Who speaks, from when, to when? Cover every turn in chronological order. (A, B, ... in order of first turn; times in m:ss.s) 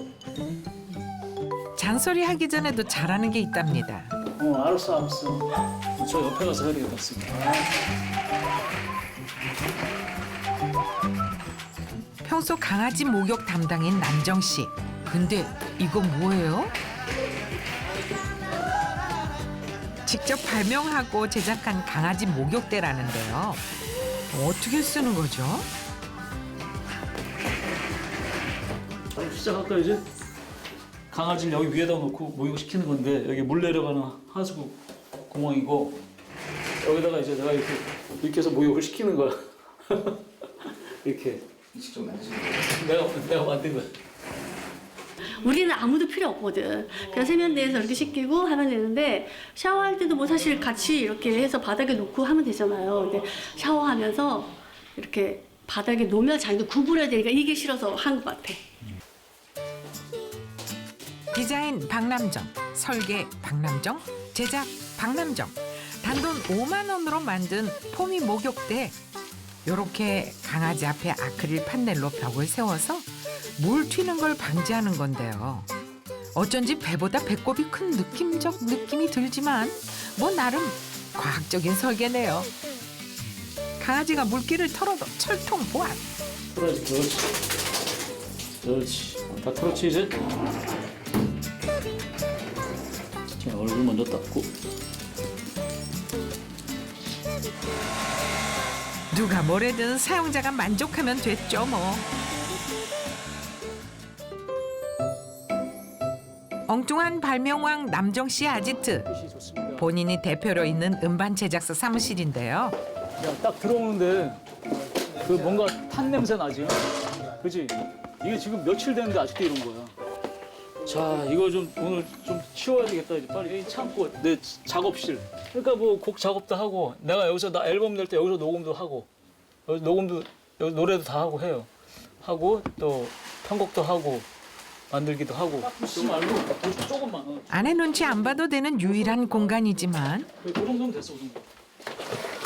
0:01.8-0:04.1 A
0:04.4-0:07.8 B
0:12.2-0:16.7 A
0:20.0-0:23.6 A
0:24.3-0:25.7 A
0:29.1-0:30.0 B
0:31.1-0:36.0 B
0:36.8-0:43.9 B
0:45.2-0:58.7 C
1:01.3-1:08.9 A
1:09.6-1:15.7 A
1:16.3-1:22.5 A
1:23.8-1:26.0 A
1:26.5-1:27.3 B
1:28.6-1:30.2 B
1:33.4-1:34.5 B
1:39.1-1:42.0 A
1:46.7-1:49.1 A
1:49.0-1:49.9 B
1:49.8-1:52.8 A
1:53.2-1:54.4 B
1:55.0-1:59.9 B
2:00.8-2:09.1 B
2:09.7-2:11.7 B
2:12.2-2:14.3 B
2:14.9-2:19.7 B
2:17.5-2:20.3 A
2:20.4-2:21.4 B